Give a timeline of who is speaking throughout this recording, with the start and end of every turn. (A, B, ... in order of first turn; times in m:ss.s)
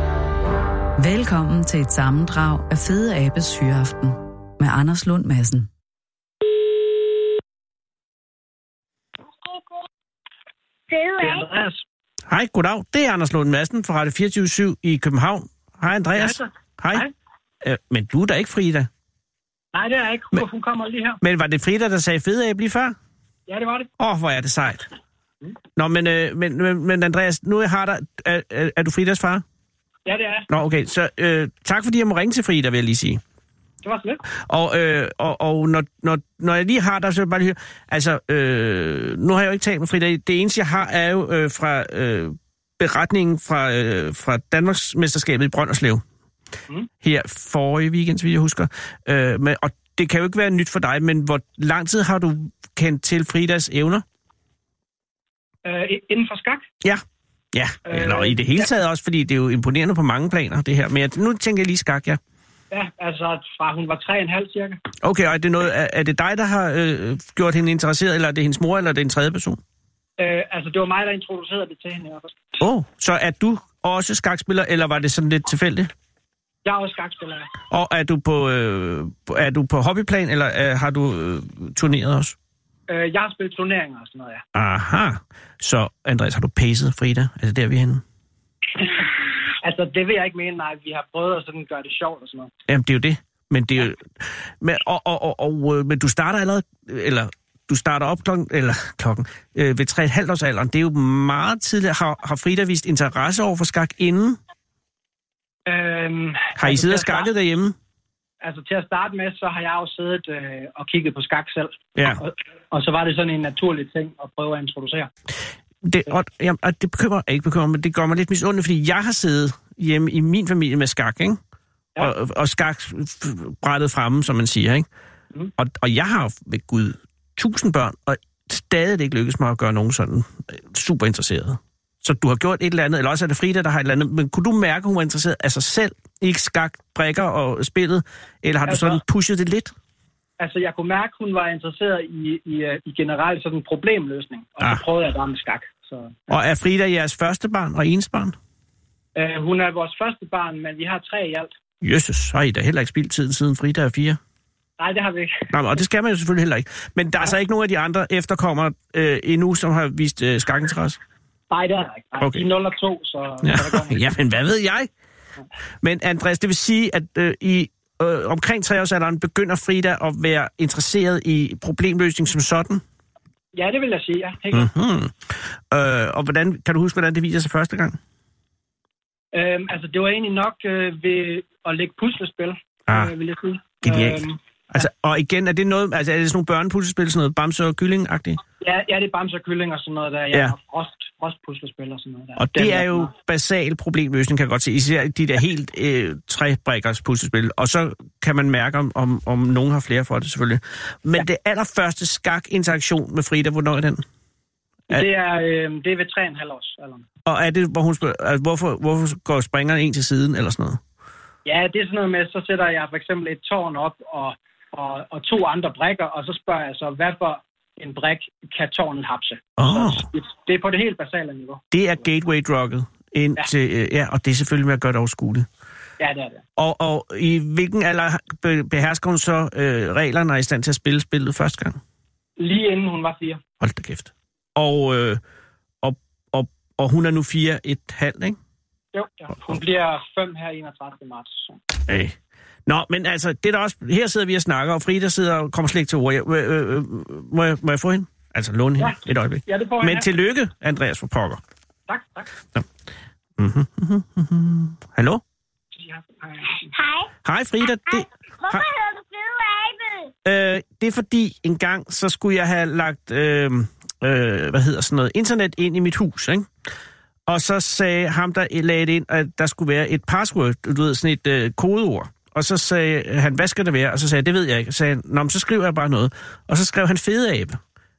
0:01.0-0:05.7 A
0:09.4-0:09.8 B
0:10.9-0:11.5 B
0:11.2-0:11.8 C
0:12.3-0:17.0 D
0:16.1-0:17.1 C
0:17.6-0:18.9 D
0:19.7-0:21.2 C
0:21.2-0:23.0 D
0:23.5-0:23.9 C
0:24.0-0:24.8 D
0:25.8-0:29.4 D
0:30.0-0:30.5 C
0:30.5-0:33.2 D
0:33.8-0:34.2 C
0:34.5-0:46.0 D
0:47.0-0:54.0 D
0:55.6-0:56.6 C
0:57.5-1:02.2 D
0:57.9-0:58.7 C
1:02.7-1:04.8 C
1:05.0-1:09.6 D
1:10.2-1:12.4 C
1:12.6-1:15.9 D
1:16.6-1:17.5 C
1:17.7-1:22.3 D
1:22.9-1:24.4 C
1:24.5-1:28.0 D
1:28.8-1:32.5 C
1:32.7-1:44.4 D
1:45.6-1:47.3 C
1:46.6-1:47.7 D
1:48.4-1:55.1 C
1:55.8-2:01.4 D
2:02.0-2:04.9 D
2:05.6-2:19.7 D
2:18.7-2:19.0 C
2:20.4-2:26.3 C
2:26.3-2:28.3 D
2:29.2-2:31.5 C
2:31.8-2:34.2 D
2:34.8-2:35.5 C
2:35.5-2:41.0 D
2:41.5-2:44.1 C
2:43.4-2:44.9 D
2:45.8-2:52.8 D
2:53.5-2:54.7 C
2:54.5-2:58.0 D
2:59.3-3:04.8 C
3:03.8-3:04.2 D
3:04.7-3:08.4 D
3:08.6-3:13.1 C
3:12.4-3:24.0 D
3:24.9-3:27.0 C
3:27.2-3:30.8 D
3:31.4-3:41.6 C
3:39.6-3:40.0 D
3:41.7-3:45.5 D
3:46.0-3:46.4 C
3:46.6-3:51.8 D
3:52.4-3:53.4 C
3:53.6-3:55.2 D
3:55.8-3:58.4 D
3:58.9-4:01.6 C
4:01.9-4:02.1 D
4:02.7-4:11.4 D
4:08.8-4:10.1 C
4:11.9-4:12.3 C
4:13.4-4:15.2 D
4:15.7-4:16.7 C
4:16.7-4:17.1 B
4:17.2-4:18.6 D
4:17.6-4:20.1 B
4:20.2-4:26.5 D
4:27.3-4:37.6 D